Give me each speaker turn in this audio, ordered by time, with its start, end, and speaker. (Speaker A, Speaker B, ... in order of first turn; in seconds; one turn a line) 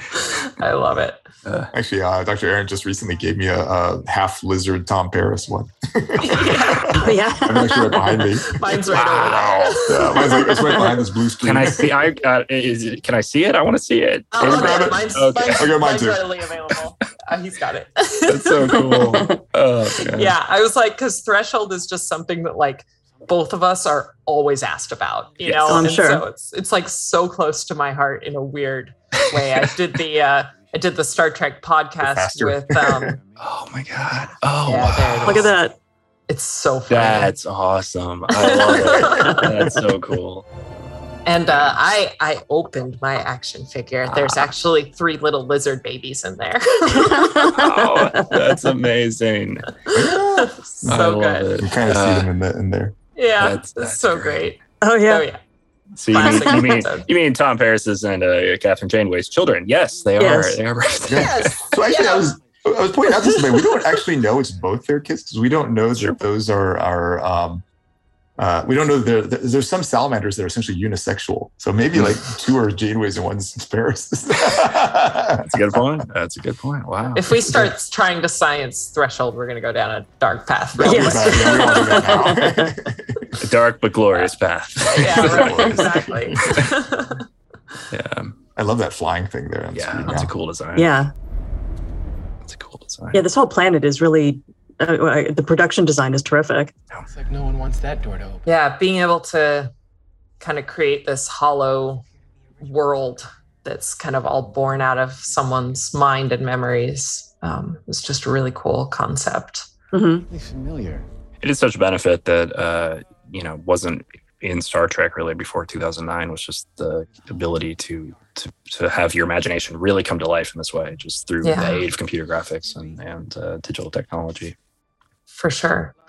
Speaker A: 0.1-1.2
Speaker B: 1.4-1.7
Speaker C: 1.7-12.1
Speaker A: 6.2-7.1
Speaker D: 6.9-8.4
Speaker A: 8.4-10.6
Speaker B: 8.9-9.9
Speaker D: 10.6-10.9
Speaker B: 11.4-15.7
Speaker A: 14.3-19.0
Speaker C: 14.4-16.3
Speaker B: 18.3-20.4
Speaker D: 18.7-19.4
Speaker A: 20.1-33.2
Speaker B: 25.4-26.0
Speaker D: 25.6-26.2
Speaker C: 32.0-33.1
Speaker B: 33.4-35.5
Speaker A: 34.6-35.6
Speaker D: 35.2-35.8
Speaker A: 36.3-37.3
Speaker B: 36.9-40.4
Speaker A: 38.3-39.7
Speaker A: 41.2-47.7
Speaker B: 44.1-44.5
Speaker D: 47.1-48.6
Speaker B: 47.5-49.8
Speaker C: 49.9-51.0
Speaker A: 50.1-51.5
Speaker B: 50.9-52.3
Speaker C: 51.6-53.0
Speaker A: 53.2-55.4
Speaker B: 53.4-54.4
Speaker D: 54.8-55.3
Speaker B: 56.0-61.5
Speaker A: 56.1-57.1
Speaker D: 56.2-56.7
Speaker D: 60.2-60.6
Speaker C: 61.1-67.6
Speaker A: 61.1-62.3
Speaker A: 63.1-64.0
Speaker C: 68.4-75.8
Speaker B: 75.4-77.5
Speaker A: 77.2-82.4
Speaker C: 80.8-83.4
Speaker D: 80.8-82.7
Speaker B: 83.4-85.9
Speaker A: 84.9-87.2
Speaker C: 85.0-86.6
Speaker B: 87.9-88.3
Speaker C: 88.6-90.3
Speaker B: 89.7-91.0
Speaker D: 90.8-91.1
Speaker B: 92.5-93.2
Speaker D: 93.1-96.7
Speaker E: 97.1-98.5
Speaker A: 98.5-99.7
Speaker A: 100.4-102.0
Speaker A: 102.6-109.7
Speaker D: 109.9-110.3
Speaker E: 110.3-111.1
Speaker B: 111.4-124.5
Speaker A: 121.4-121.9
Speaker A: 125.3-125.9